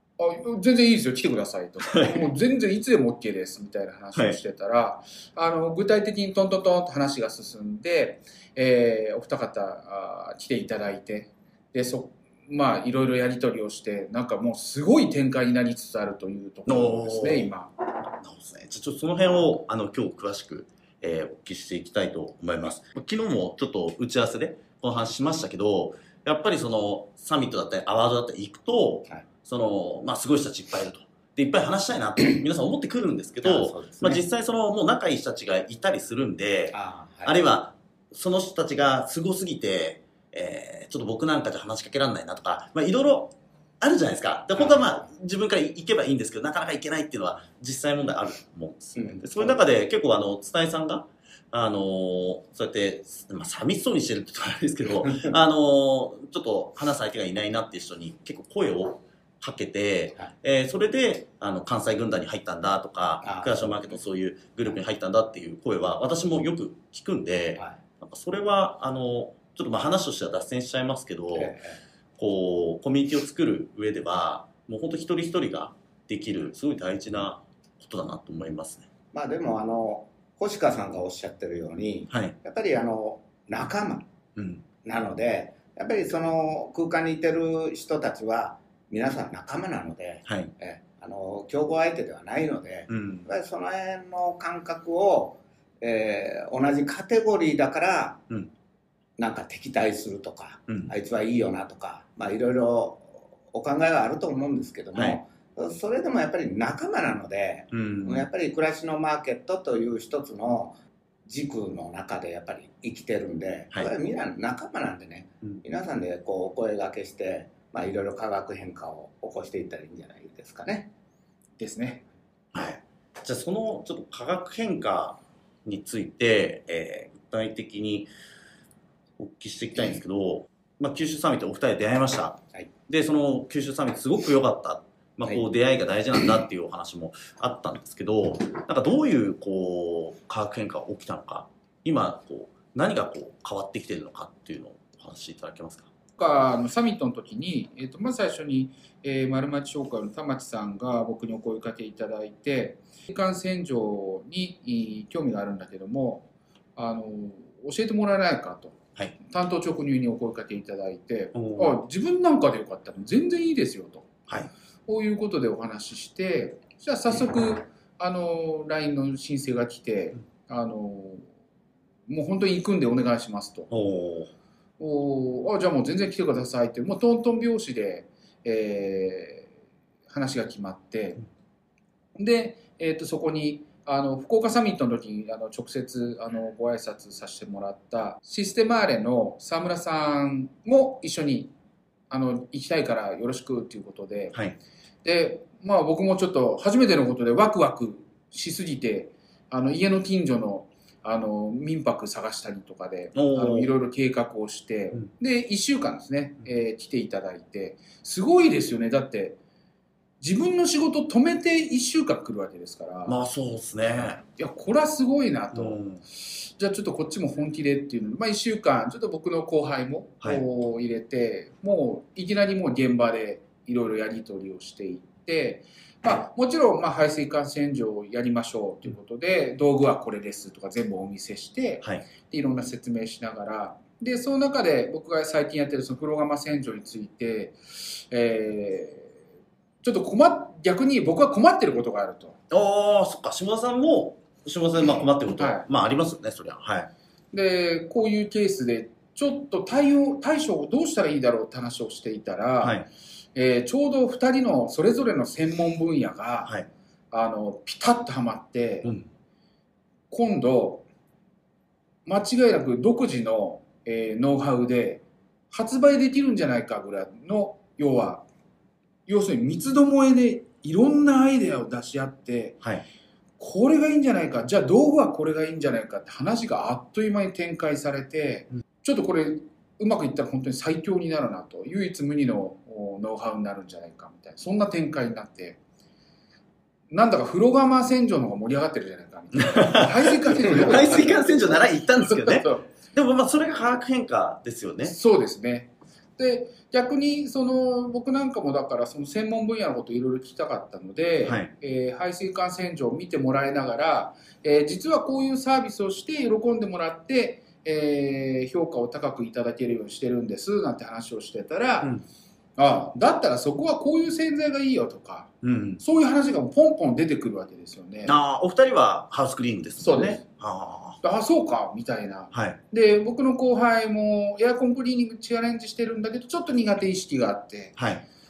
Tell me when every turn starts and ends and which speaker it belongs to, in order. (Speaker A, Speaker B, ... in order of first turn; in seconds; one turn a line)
Speaker A: 0.2-17.7
Speaker B: 1.9-2.2
Speaker B: 16.7-17.5
Speaker B: 18.0-71.5
Speaker C: 33.4-34.2
Speaker C: 36.7-37.4
Speaker C: 49.0-49.6
Speaker C: 63.2-63.9
Speaker C: 71.4-71.8
Speaker B: 72.2-78.9
Speaker C: 79.1-84.1
Speaker B: 84.3-84.6
Speaker C: 84.8-98.2
Speaker B: 92.9-93.3
Speaker C: 99.2-110.7
Speaker B: 100.7-100.9
Speaker B: 107.7-108.3
Speaker C: 111.2-120.9
Speaker A: 121.6-122.0
Speaker B: 122.5-128.1
Speaker B: 129.2-145.9
Speaker A: 146.2-156.2
Speaker A: 156.8-164.1
Speaker B: 161.3-161.8
Speaker A: 164.9-171.3
Speaker A: 172.1-173.7
Speaker B: 173.7-174.3
Speaker A: 174.8-179.5
Speaker A: 180.1-181.2
Speaker A: 182.2-191.5
Speaker A: 192.1-194.3
Speaker A: 195.0-209.4
Speaker B: 203.1-203.7
Speaker A: 210.2-213.2
Speaker B: 213.1-214.2
Speaker A: 214.2-239.2
Speaker B: 215.5-216.0
Speaker A: 239.8-242.4
Speaker B: 242.5-246.9
Speaker A: 245.4-245.6
Speaker A: 247.3-252.8
Speaker B: 252.6-252.9
Speaker A: 253.3-256.5
Speaker A: 257.1-258.9
Speaker A: 260.1-260.8
Speaker A: 262.1-268.2
Speaker A: 269.1-272.6
Speaker A: 273.4-285.6
Speaker A: 286.9-292.7
Speaker B: 289.4-294.9
Speaker A: 294.8-311.9
Speaker B: 301.2-301.5
Speaker A: 312.6-318.2
Speaker B: 315.4-315.8
Speaker B: 318.0-321.0
Speaker A: 319.8-320.2
Speaker A: 321.0-327.7
Speaker B: 322.3-322.6
Speaker B: 327.8-328.0